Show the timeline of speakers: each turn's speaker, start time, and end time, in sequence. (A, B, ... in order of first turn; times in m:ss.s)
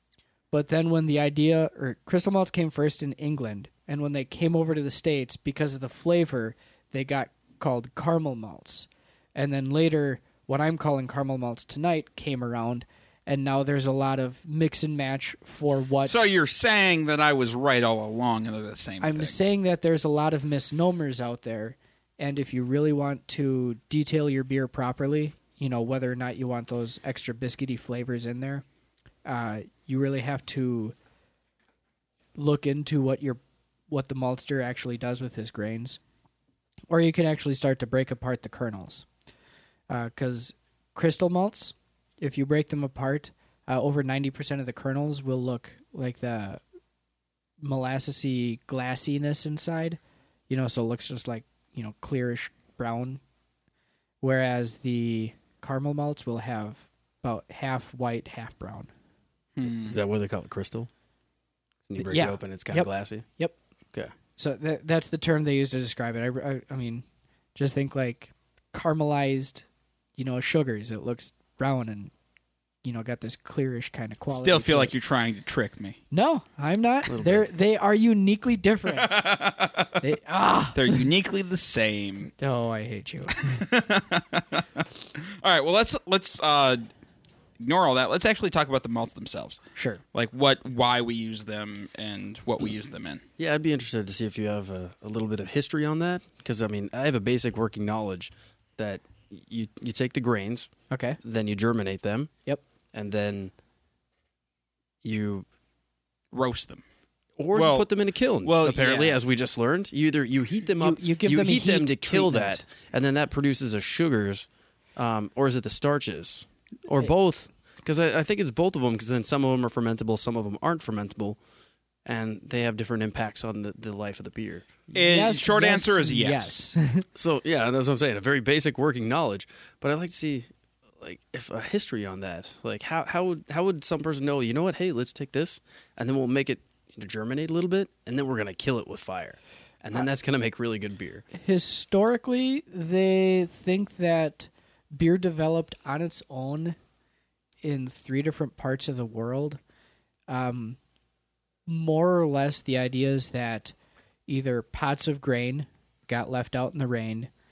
0:00.5-0:16.3 A
0:16.0-0:19.4 B
0:19.0-0:28.6 A
0:29.3-0:31.0 A
0:32.4-0:36.0 A
0:36.9-0:39.1 A
0:39.9-0:46.6 A
0:47.6-0:53.2 A
0:54.2-0:58.9 A
0:59.6-1:00.0 B
0:59.9-1:00.9 C
1:01.9-1:03.3 C
1:02.0-1:03.6 A
1:04.4-1:07.0 A
1:07.6-1:09.7 A
1:10.2-1:12.1 A
1:12.8-1:14.9 A
1:14.3-1:16.0 B
1:16.1-1:19.2 A
1:17.1-1:17.5 C
1:18.9-1:19.9 B
1:20.0-1:20.8 A
1:20.8-1:22.3 B
1:22.4-1:23.7 A
1:23.4-1:26.9 B
1:27.6-1:29.6 B
1:29.8-1:30.0 A
1:30.1-1:33.2 B
1:33.4-1:40.7 C
1:40.9-1:41.2 A
1:41.2-1:42.3 C
1:42.9-1:43.5 C
1:45.0-1:45.5 C
1:46.3-1:46.8 B
1:47.4-2:01.4 C
1:47.5-1:47.9 B
1:48.4-1:49.2 B
1:50.8-1:52.7 A
2:02.0-2:04.7 C
2:04.9-2:07.1 A
2:04.9-2:06.7 B
2:07.2-2:10.5 C
2:11.0-2:21.2 C
2:21.3-2:26.8 A
2:27.6-2:29.6 A
2:30.3-2:30.8 A
2:31.7-2:33.7 A
2:34.3-2:37.3 A